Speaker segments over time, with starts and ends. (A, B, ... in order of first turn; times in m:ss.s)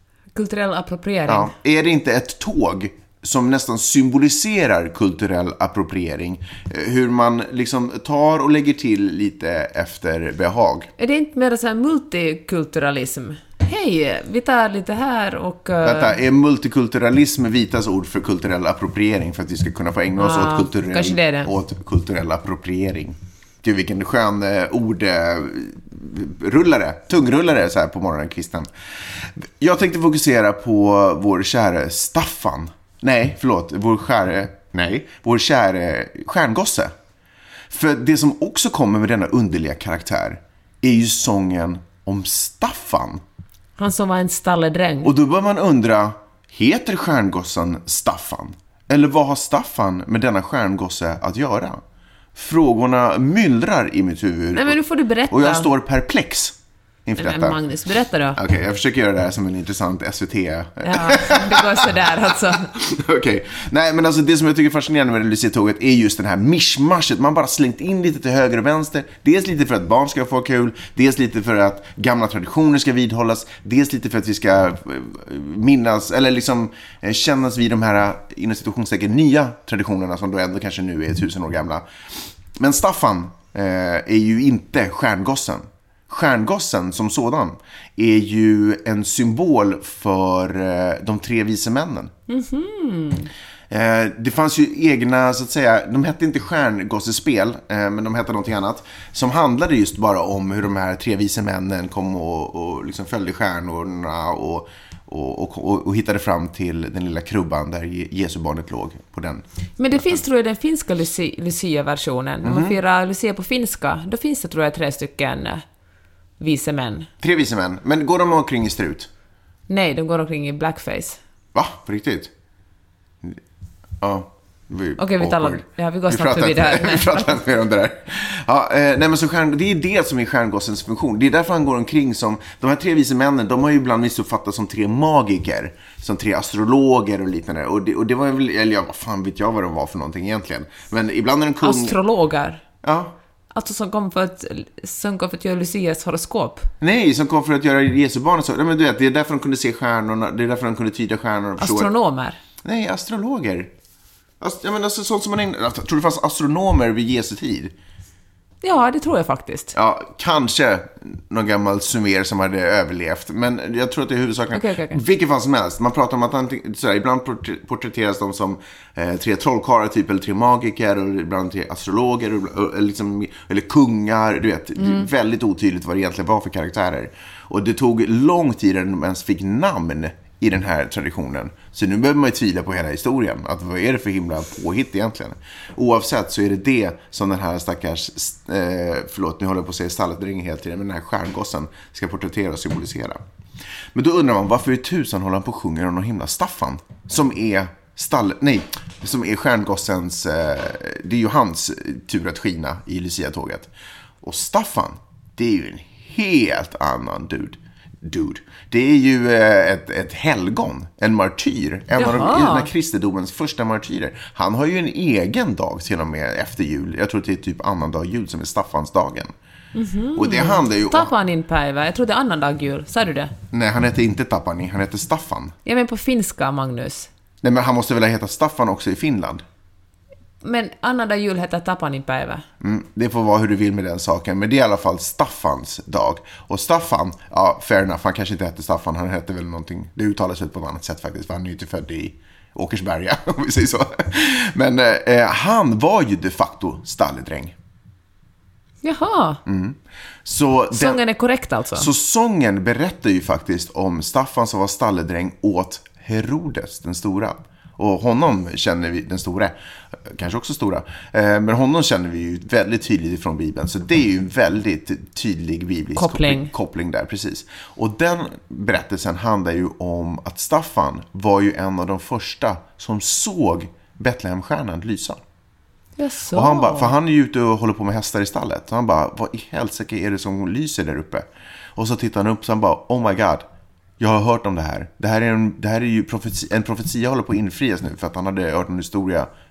0:00.4-0:01.5 A
0:01.3-0:10.9 B
0:11.0-0:16.2 A
0:15.8-0:36.9 B
0:20.2-0:21.5 A
0:37.7-0:43.2 B
0:43.8-0:45.1 A
0:45.0-0:51.8 B
0:52.4-0:57.6 B
0:54.6-0:55.7 A
0:57.2-0:58.4 A
0:58.4-1:32.1 B
1:00.8-1:02.7 A
1:32.3-1:33.3 A
1:33.7-1:49.4 B
1:49.8-1:55.6 A
1:52.4-1:52.8 B
1:56.4-1:57.1 A
1:57.2-1:59.1 B
1:59.7-2:01.2 A
2:01.5-2:02.3 B
2:04.0-2:22.0 B
2:05.0-2:07.4 A
2:21.6-2:22.6 A
2:22.8-2:23.2 B
2:23.5-2:26.7 A
2:26.8-2:31.9 B
2:31.6-2:32.4 A
2:32.6-2:33.7 B
2:34.4-2:37.7 B
2:38.6-2:39.7 A
2:39.7-3:13.2 B
2:44.5-2:45.0 A
2:54.8-2:55.1 A
3:14.0-3:23.7 B
3:24.2-3:39.3 B
3:32.0-3:32.7 A
3:39.8-3:43.4 A
3:40.2-3:41.1 B
3:43.5-3:45.5 B
3:45.6-3:47.1 A
3:47.4-3:49.4 B
3:50.4-3:52.4 A
3:52.6-4:07.6 B
4:08.8-4:09.4 A
4:09.5-4:11.0 B
4:10.7-4:11.9 A
4:11.8-4:35.2 B
4:26.0-4:26.5 A
4:36.0-4:36.9 A
4:36.3-4:43.5 B
4:44.0-4:49.3 B